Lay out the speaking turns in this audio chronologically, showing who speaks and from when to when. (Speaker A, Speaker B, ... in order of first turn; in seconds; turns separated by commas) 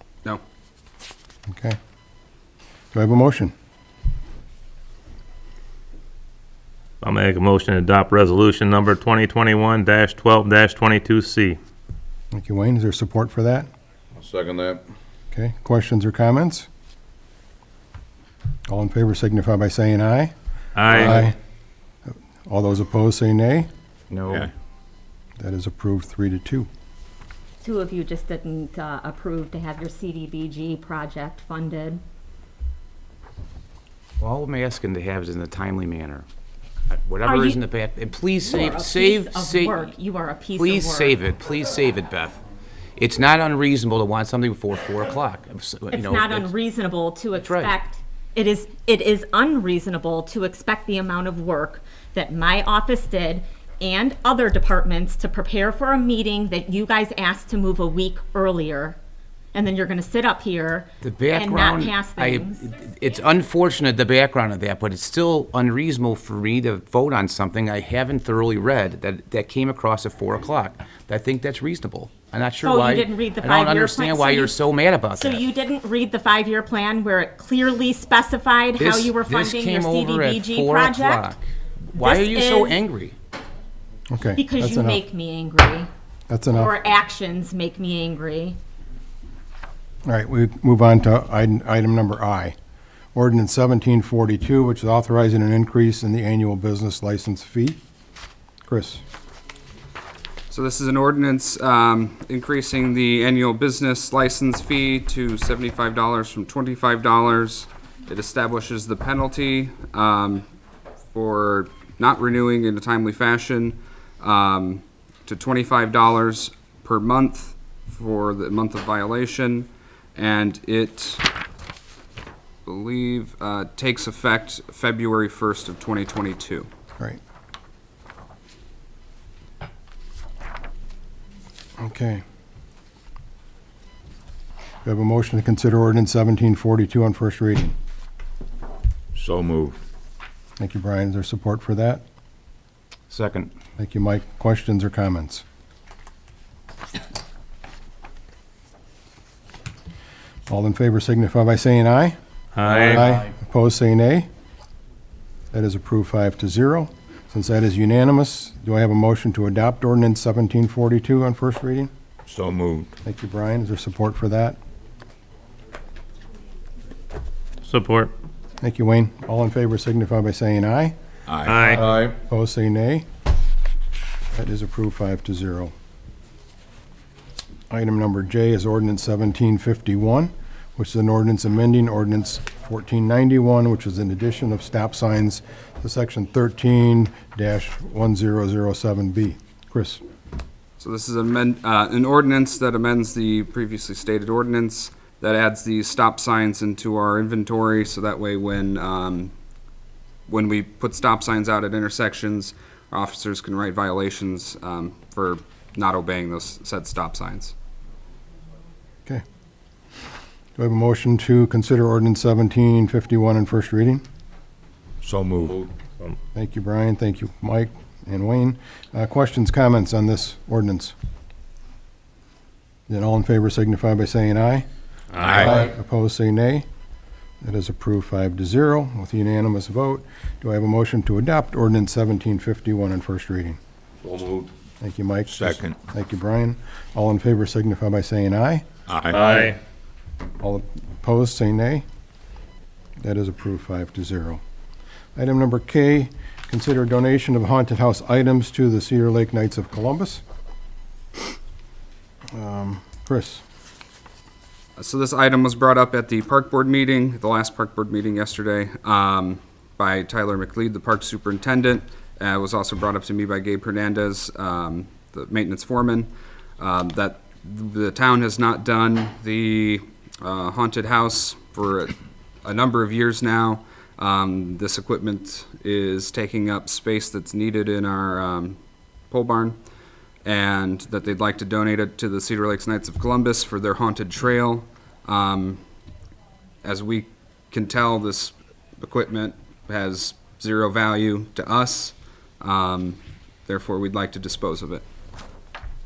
Speaker A: 1.5-1.8, Speaker A: 2.9-3.5, Speaker B: 7.0-11.6, Speaker A: 12.3-13.7, Speaker A: 15.3-16.7, Speaker A: 18.7-20.3, Speaker B: 20.8-21.2, Speaker A: 20.9-21.3, Speaker A: 22.1-23.7, Speaker C: 24.1-24.5, Speaker A: 25.4-26.7, Speaker D: 27.6-32.0, Speaker C: 34.2-36.2, Speaker C: 36.9-39.8, Speaker D: 37.2-37.6, Speaker D: 38.4-41.2, Speaker C: 40.5-42.4, Speaker C: 43.0-46.5, Speaker D: 45.9-59.0, Speaker C: 47.4-47.7, Speaker D: 59.5-62.7, Speaker C: 61.0-75.5, Speaker D: 72.6-74.6, Speaker D: 75.1-81.3, Speaker C: 78.8-83.2, Speaker D: 81.9-82.8, Speaker A: 84.1-85.0, Speaker D: 84.3-85.9, Speaker A: 86.3-86.7, Speaker D: 86.5-88.6, Speaker A: 90.0-92.5, Speaker A: 93.1-97.8, Speaker A: 98.6-99.0, Speaker E: 100.5-110.4, Speaker E: 111.1-121.2, Speaker E: 122.7-126.7, Speaker A: 131.8-132.2, Speaker A: 134.8-137.7, Speaker F: 139.2-139.8, Speaker A: 140.6-142.0, Speaker C: 143.1-143.5, Speaker A: 143.8-145.4, Speaker A: 150.5-154.3, Speaker B: 152.6-153.1, Speaker A: 155.5-161.9, Speaker F: 162.3-162.9, Speaker A: 163.0-164.6, Speaker B: 167.7-168.1, Speaker A: 168.6-170.9, Speaker F: 171.3-172.1, Speaker B: 171.4-171.9, Speaker A: 171.8-173.1, Speaker A: 174.3-175.7, Speaker A: 177.7-190.0, Speaker E: 190.8-199.3, Speaker E: 200.3-207.5, Speaker A: 210.6-214.0, Speaker F: 215.0-215.7, Speaker A: 216.3-220.9, Speaker A: 222.9-224.7, Speaker F: 225.2-225.7, Speaker A: 225.3-226.7, Speaker A: 227.4-233.6, Speaker F: 234.0-234.5, Speaker A: 234.8-238.6, Speaker F: 235.3-235.8, Speaker F: 238.9-239.2, Speaker B: 239.1-239.6, Speaker A: 240.4-241.8, Speaker A: 243.0-244.4, Speaker A: 245.2-250.2, Speaker A: 252.3-253.4, Speaker E: 254.8-278.6, Speaker E: 279.1-279.6, Speaker E: 280.2-285.6, Speaker E: 286.6-294.8